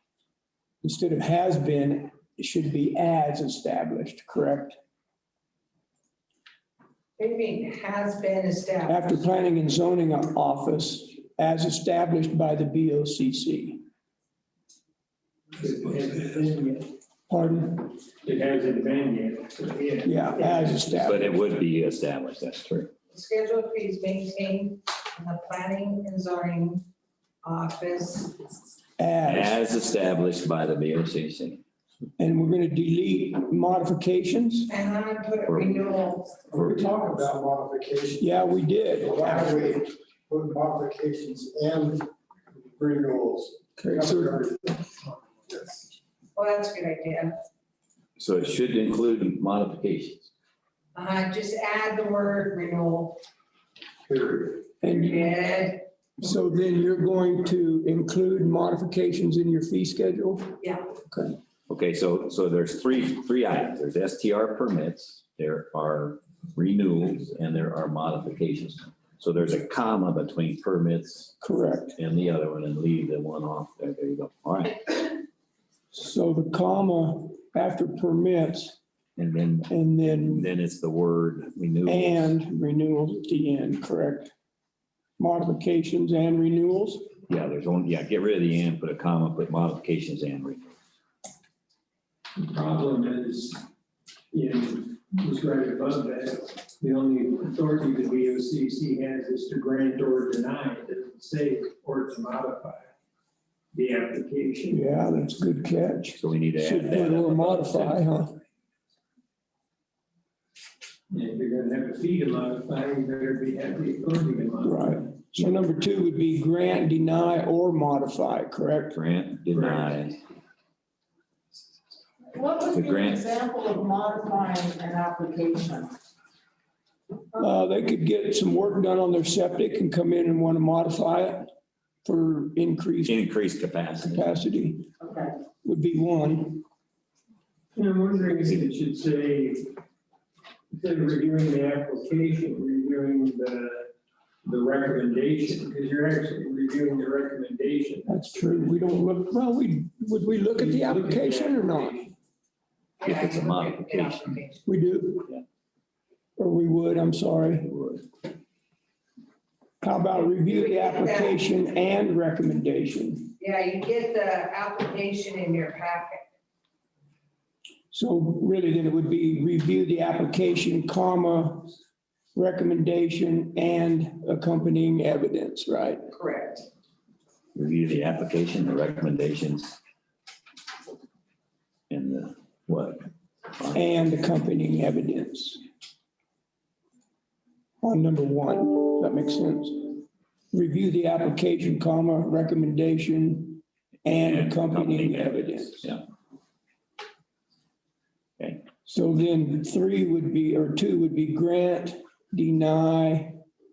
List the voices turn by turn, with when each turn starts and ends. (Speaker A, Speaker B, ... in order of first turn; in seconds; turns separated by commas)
Speaker A: 0.8-4.8, Speaker B: 7.2-9.2, Speaker A: 8.9-13.8, Speaker C: 15.6-16.9, Speaker A: 17.3-17.9, Speaker C: 18.2-20.8, Speaker A: 20.0-21.3, Speaker D: 20.9-22.9, Speaker B: 23.1-26.9, Speaker B: 27.4-28.4, Speaker A: 29.0-29.6, Speaker D: 29.2-31.6, Speaker A: 32.2-34.7, Speaker B: 34.7-36.4, Speaker D: 35.5-36.0, Speaker E: 36.5-38.4, Speaker D: 36.6-36.9, Speaker A: 38.2-39.8, Speaker E: 39.0-44.9, Speaker A: 43.8-44.4, Speaker E: 45.5-45.8, Speaker B: 46.3-47.4, Speaker D: 48.2-50.3, Speaker B: 50.9-53.2, Speaker E: 54.1-54.4, Speaker A: 54.8-55.3, Speaker B: 54.8-55.8, Speaker A: 56.2-61.4, Speaker D: 61.7-71.4, Speaker A: 71.4-72.0, Speaker D: 71.9-75.0, Speaker A: 75.9-78.8, Speaker D: 79.2-82.3, Speaker A: 79.7-80.5, Speaker A: 81.8-84.3, Speaker A: 85.2-87.1, Speaker D: 87.3-90.7, Speaker C: 92.4-93.6, Speaker C: 94.3-102.9, Speaker C: 103.7-104.8, Speaker A: 104.7-108.3, Speaker D: 106.2-108.0, Speaker C: 111.1-115.0, Speaker A: 114.6-119.0, Speaker D: 115.4-115.6, Speaker D: 118.9-120.2, Speaker F: 122.3-125.9, Speaker D: 122.7-123.2, Speaker A: 127.4-131.5, Speaker A: 132.0-133.2, Speaker D: 133.1-134.4, Speaker A: 134.0-134.9, Speaker F: 135.0-135.3, Speaker A: 135.6-136.6, Speaker C: 137.7-139.6, Speaker C: 140.7-143.9, Speaker C: 144.4-148.7, Speaker A: 148.1-152.0, Speaker C: 150.5-152.1, Speaker B: 153.0-154.6, Speaker D: 153.0-154.4, Speaker A: 154.6-155.3, Speaker A: 156.4-157.7, Speaker D: 157.6-158.0, Speaker A: 159.8-163.3, Speaker B: 160.4-161.4, Speaker B: 163.4-166.2, Speaker A: 167.9-171.7, Speaker A: 172.3-176.1, Speaker B: 176.1-176.6, Speaker D: 177.5-179.8, Speaker D: 181.9-183.8, Speaker A: 183.7-185.6, Speaker A: 187.8-190.0, Speaker A: 190.5-195.8, Speaker D: 194.1-196.0, Speaker D: 198.4-198.7, Speaker A: 198.8-203.4